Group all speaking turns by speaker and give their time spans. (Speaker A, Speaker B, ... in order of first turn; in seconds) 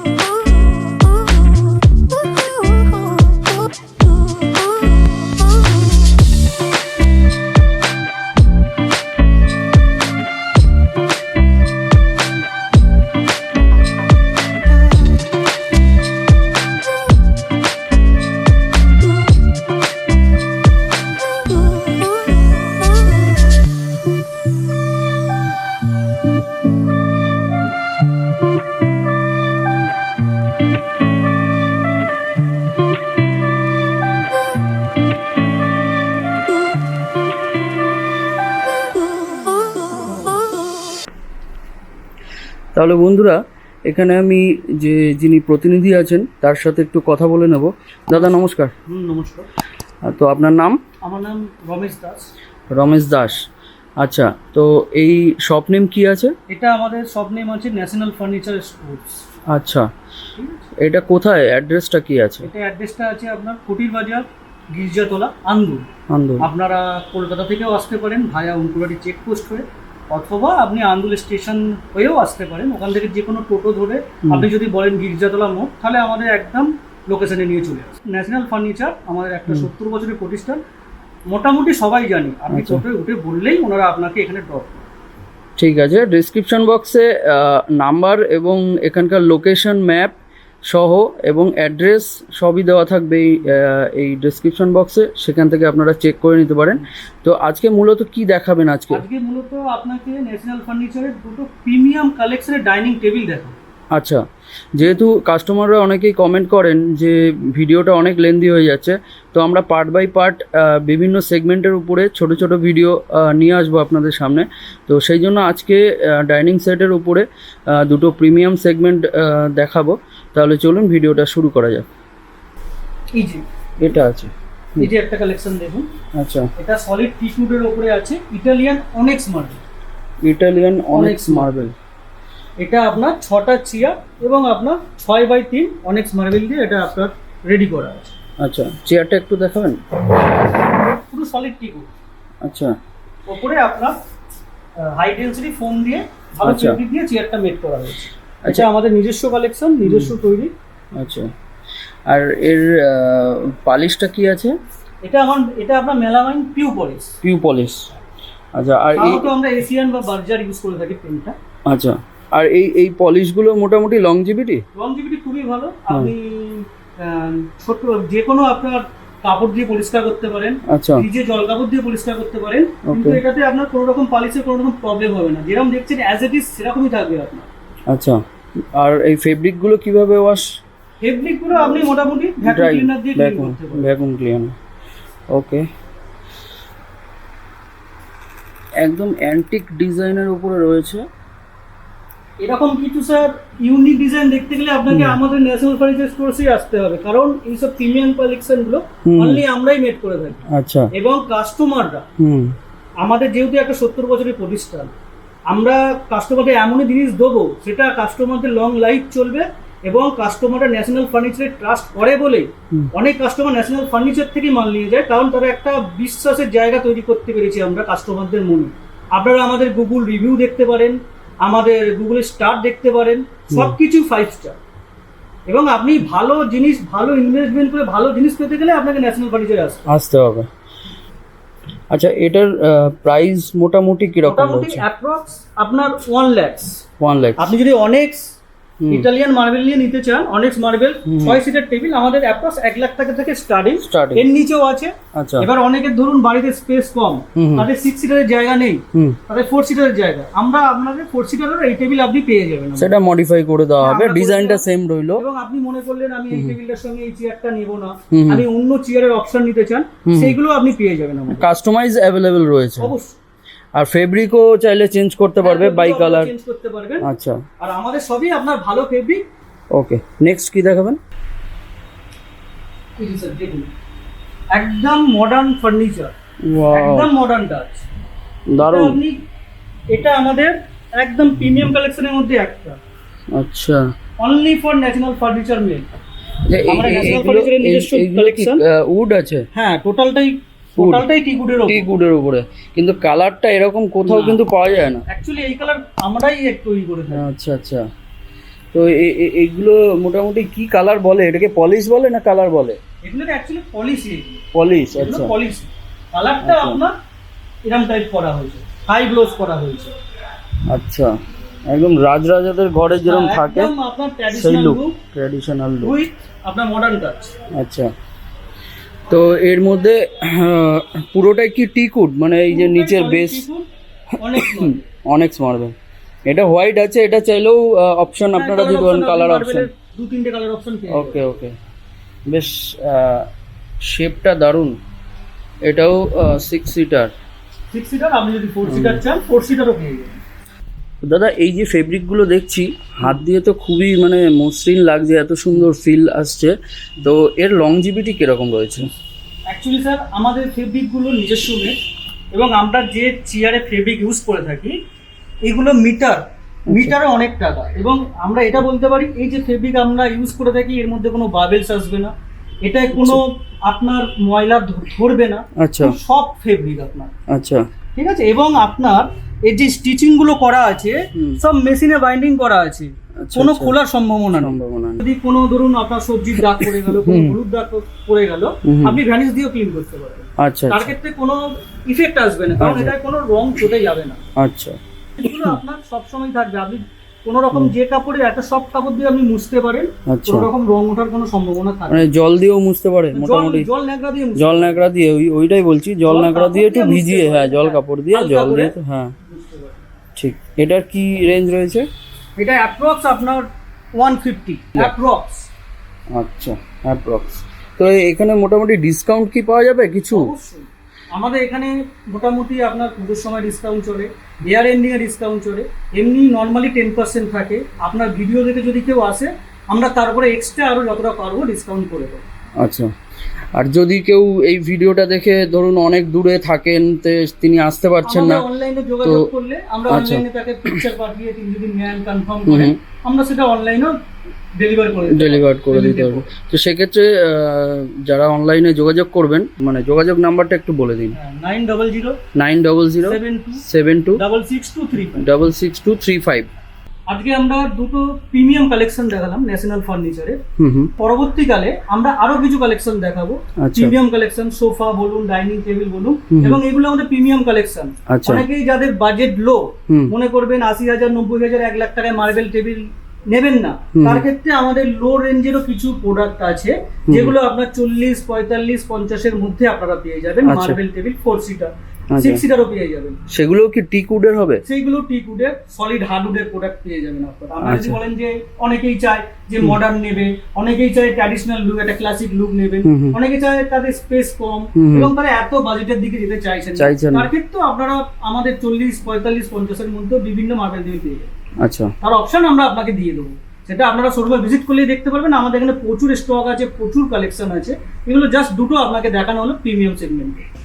Speaker A: 42.7-48.7, 50.0-50.8, 52.7-53.4, 54.0-56.3, 59.5-59.9, 60.8-62.5, 66.1-66.5, 82.5-82.8, 85.6-90.2, 90.7-99.0, 103.9-104.2, 104.8-121.9, 123.8-124.9, 126.2-126.5, 130.2-131.7, 138.4-139.8, 142.4-142.7, 146.4-146.8, 149.9-150.1, 151.0-151.3, 152.1-154.6, 157.2-157.9, 158.6-159.3, 161.7-164.6, 170.7-171.1, 172.9-173.2, 177.9-178.2, 178.8-180.4, 182.4-184.6, 185.3-185.7, 188.8-191.1, 194.9-195.2, 199.1-199.4, 200.5-200.9, 202.2-202.6, 229.9-230.5, 231.9-234.8, 237.0-237.5, 238.8-239.1, 241.1-241.4, 243.8-244.3, 245.2-245.5, 247.4-247.7, 252.8-255.2, 258.1-258.4, 260.1-260.4, 261.3-262.9, 263.8-266.3, 267.0-267.4, 269.7-271.0, 276.5-277.1, 278.5-279.0, 283.4-283.8, 286.5-289.4, 290.8-291.1, 291.7-295.0, 297.1-297.9, 298.7-302.8, 304.5-305.3, 306.4-306.8, 310.7-311.1, 311.7-313.7, 314.3-315.9, 317.5-317.9, 319.1-323.4, 324.4-325.8, 326.3-329.7, 330.9-331.6, 332.3-333.3, 333.8-334.8, 335.7-337.1, 338.7-339.0, 341.0-348.9, 365.6-365.9, 367.3-367.6, 373.2-373.8, 374.4-375.0, 376.6-377.4, 378.7-379.0, 380.4-380.9, 382.6-382.9, 384.4-384.8, 390.1-390.5, 391.9-393.7, 394.4-399.1, 400.2-401.9, 406.1-410.3, 422.6-422.9, 423.6-428.4, 429.9-430.8, 432.5-432.8, 435.1-441.2, 442.4-444.2, 445.2-446.5, 450.6-450.9, 453.6-453.9, 456.3-456.6, 458.1-458.4, 464.0-464.2, 470.4-470.8, 472.1-472.4, 473.3-474.6, 477.6-478.0, 482.9-483.2, 484.8-485.1, 486.8-487.3, 491.6-491.9
Speaker B: 48.9-49.5, 51.0-52.3, 56.5-59.2, 60.4-60.6, 62.4-65.9, 66.4-80.6, 81.3-84.9, 98.9-103.6, 123.2-123.4, 124.8-125.9, 126.6-129.6, 130.9-131.5, 132.6-138.1, 141.1-141.9, 143.3-144.0, 144.8-150.5, 155.0-157.1, 158.9-161.3, 164.8-177.5, 181.0-183.8, 192.4-202.1, 203.0-204.9, 205.5-224.6, 225.5-229.8, 234.2-236.8, 237.4-238.3, 238.9-252.9, 253.8-261.4, 262.8-263.2, 265.4-267.1, 267.6-269.2, 273.0-273.7, 274.5-276.1, 276.7-277.9, 278.6-279.2, 279.9-282.8, 284.2-285.9, 286.7-288.6, 289.6-291.9, 294.1-294.4, 295.1-297.2, 303.1-304.4, 304.9-306.9, 307.7-309.9, 313.0-315.0, 315.8-317.3, 322.5-323.7, 324.2-324.9, 328.3-331.2, 337.7-340.2, 349.5-351.8, 352.3-354.8, 355.5-362.1, 362.6-367.1, 368.0-384.2, 385.2-392.1, 393.1-394.8, 396.1-398.7, 399.3-399.8, 402.4-403.5, 404.0-405.5, 410.1-422.2, 428.1-433.9, 434.6-436.3, 441.1-442.2, 443.0-443.6, 444.2-445.3, 447.1-450.4, 451.0-473.2, 474.6-491.3, 492.0-500.4